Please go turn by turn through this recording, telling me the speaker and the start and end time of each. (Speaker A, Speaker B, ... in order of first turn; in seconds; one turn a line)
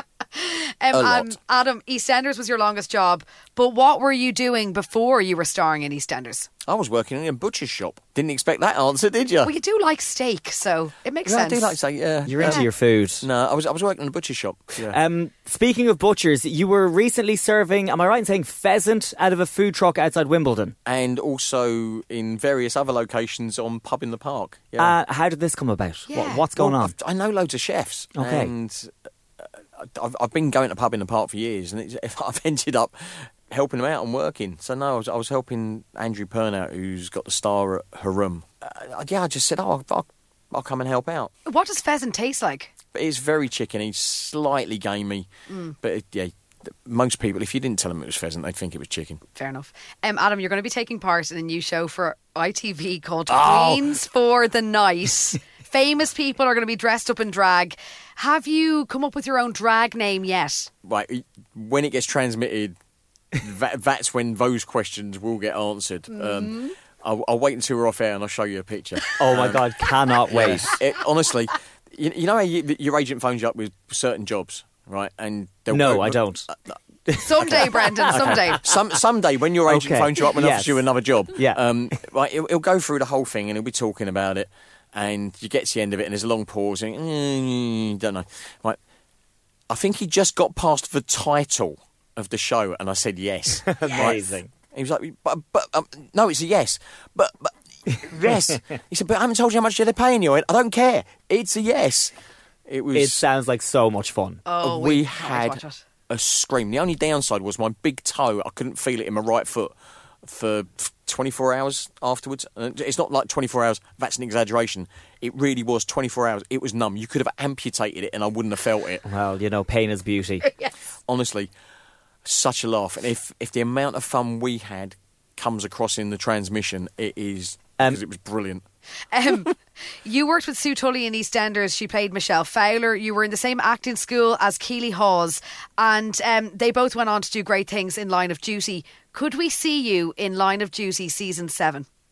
Speaker A: 0.3-6.5
Speaker B: 0.9-1.3
Speaker B: 6.7-9.5
Speaker A: 9.4-11.8
Speaker B: 11.2-12.7
Speaker C: 12.3-13.2
Speaker B: 13.2-15.0
Speaker C: 14.9-20.8
Speaker B: 20.9-25.0
Speaker C: 24.8-26.9
Speaker A: 26.1-26.5
Speaker B: 26.6-41.3
Speaker C: 28.2-28.5
Speaker A: 41.5-42.7
Speaker B: 42.9-45.3
Speaker A: 45.5-45.8
Speaker B: 45.8-49.2
Speaker A: 49.4-60.7
Speaker B: 53.3-53.9
Speaker B: 60.8-62.8
Speaker B: 63.4-69.7
Speaker A: 66.1-66.7
Speaker C: 69.2-70.7
Speaker B: 70.3-76.8
Speaker C: 75.7-76.5
Speaker C: 77.1-78.7
Speaker A: 77.2-78.6
Speaker B: 77.4-88.8
Speaker C: 79.7-81.6
Speaker B: 89.7-102.1
Speaker C: 93.7-94.5
Speaker B: 102.7-103.3
Speaker C: 102.9-104.4
Speaker A: 104.5-105.8
Speaker B: 104.6-119.0
Speaker C: 119.0-120.5
Speaker B: 121.1-121.5
Speaker B: 122.2-128.6
Speaker A: 129.1-141.9